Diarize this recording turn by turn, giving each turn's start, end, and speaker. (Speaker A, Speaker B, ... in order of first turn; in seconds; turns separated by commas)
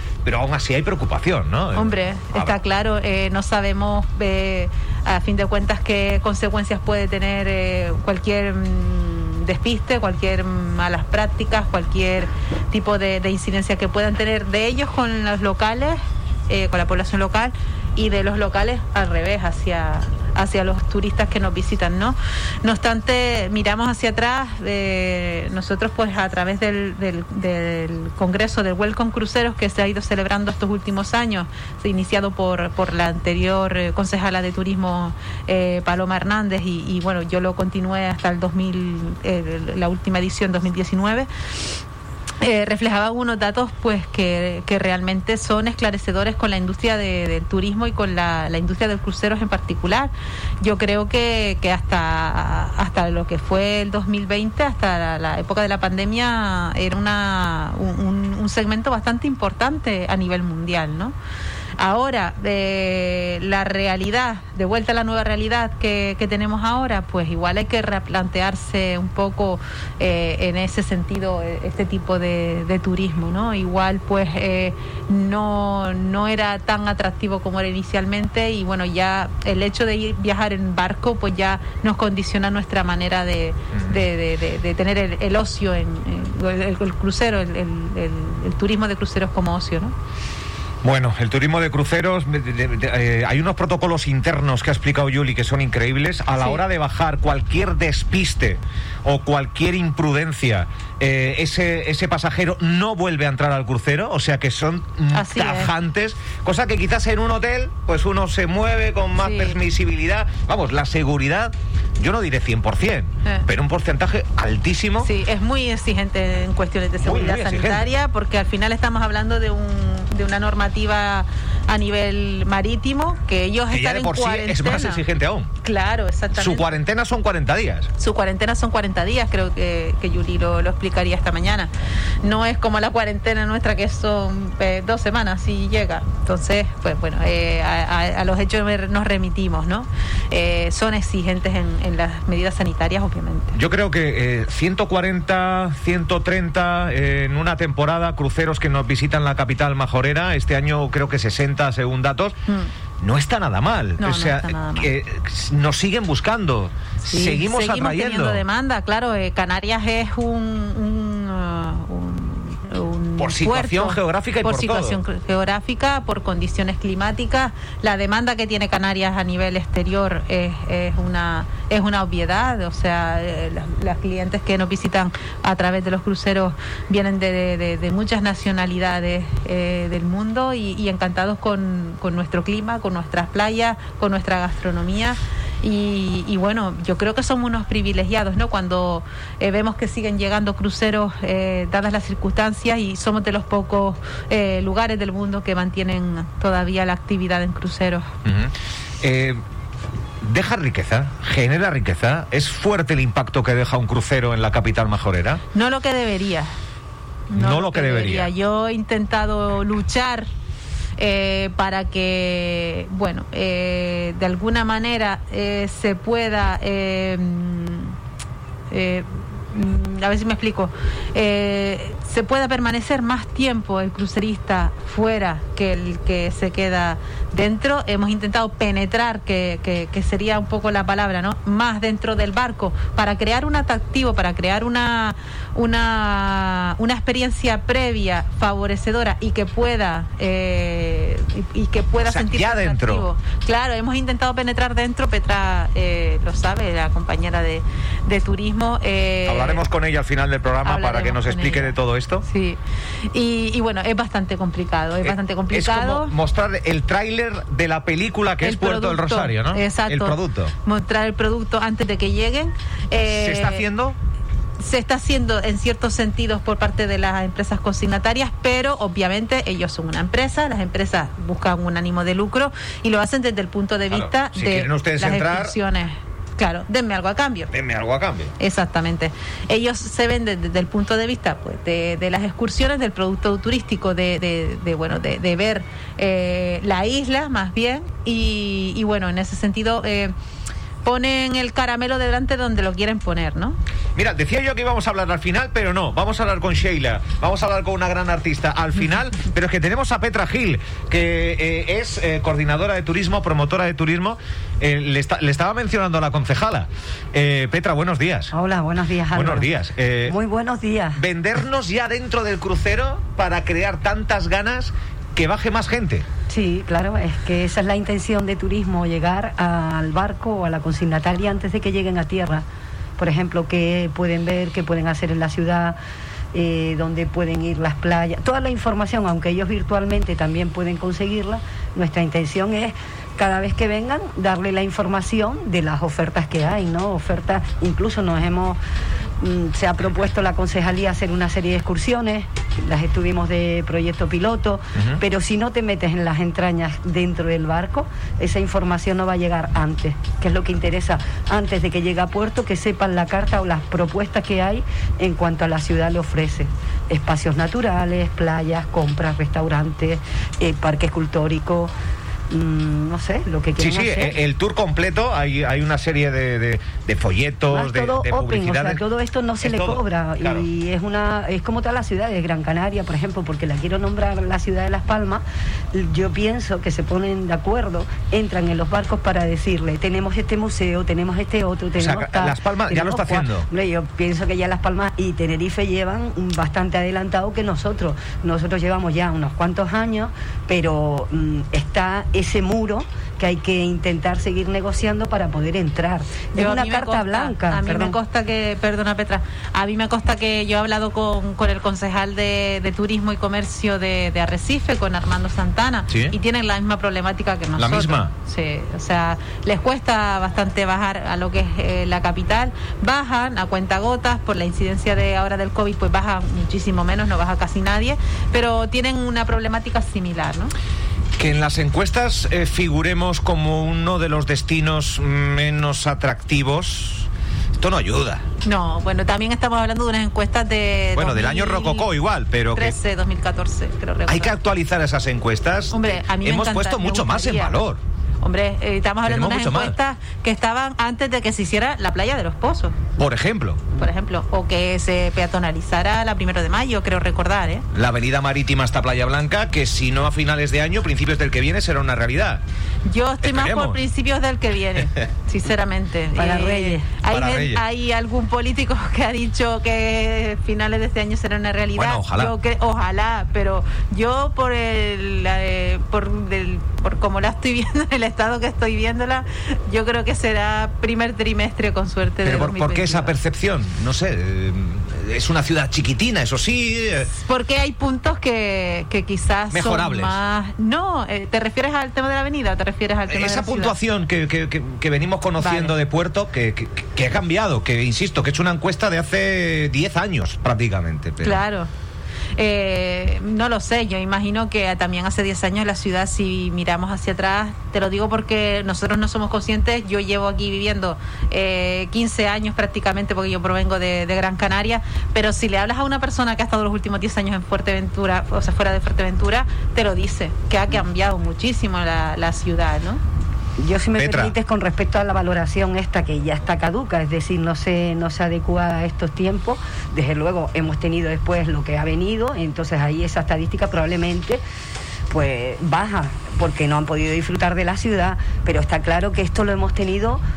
Speaker A: 0.3-2.5, Speaker B: 1.8-41.8, Speaker B: 42.4-61.1, Speaker B: 61.8-90.0, Speaker A: 90.8-115.1, Speaker B: 96.4-96.6, Speaker B: 105.1-105.7, Speaker B: 109.2-109.6, Speaker B: 115.0-125.0, Speaker A: 117.0-117.9, Speaker A: 123.7-125.5, Speaker B: 125.6-126.8, Speaker A: 126.3-127.9, Speaker B: 128.0-131.7, Speaker B: 132.2-143.6, Speaker A: 143.5-152.4, Speaker A: 153.0-158.4, Speaker B: 154.0-154.9, Speaker B: 157.1-198.1, Speaker A: 163.2-165.0, Speaker A: 198.2-199.4, Speaker A: 200.2-205.4, Speaker B: 205.5-206.5, Speaker B: 207.3-210.3, Speaker A: 207.3-208.3, Speaker B: 211.0-218.0, Speaker B: 218.7-249.6, Speaker A: 242.0-243.1, Speaker A: 249.3-252.3, Speaker B: 250.7-256.1, Speaker A: 255.0-260.5, Speaker B: 258.4-263.6, Speaker A: 263.1-264.0, Speaker B: 264.6-277.5, Speaker A: 273.9-275.6, Speaker A: 277.5-278.3, Speaker B: 278.4-290.1, Speaker B: 290.8-293.6, Speaker A: 294.0-308.3, Speaker C: 308.3-309.5, Speaker A: 309.1-310.2, Speaker C: 310.1-311.0, Speaker A: 311.0-316.1, Speaker C: 316.3-322.4, Speaker C: 323.0-325.8, Speaker C: 326.3-338.6, Speaker C: 339.2-361.7, Speaker C: 362.3-364.2, Speaker A: 363.6-368.8, Speaker C: 367.5-398.0, Speaker A: 369.4-370.5, Speaker A: 381.8-383.5, Speaker B: 396.3-420.5, Speaker A: 405.9-406.1, Speaker A: 407.6-408.1, Speaker A: 421.2-428.2, Speaker B: 428.4-431.9, Speaker A: 431.0-432.8, Speaker B: 432.5-434.3, Speaker A: 434.1-437.8, Speaker B: 435.7-437.6, Speaker B: 438.2-442.8, Speaker A: 439.1-439.8, Speaker A: 443.0-443.6, Speaker B: 443.8-447.7, Speaker A: 447.7-452.4, Speaker B: 452.9-473.1, Speaker A: 453.2-453.8, Speaker C: 456.1-456.9, Speaker A: 457.1-457.6, Speaker A: 461.8-462.3, Speaker A: 472.2-477.1, Speaker B: 477.1-483.8, Speaker A: 479.5-480.1, Speaker A: 483.1-491.4, Speaker B: 485.4-485.8, Speaker B: 491.2-491.7, Speaker B: 492.4-513.0, Speaker C: 513.6-524.4, Speaker A: 514.0-514.4, Speaker C: 525.1-530.2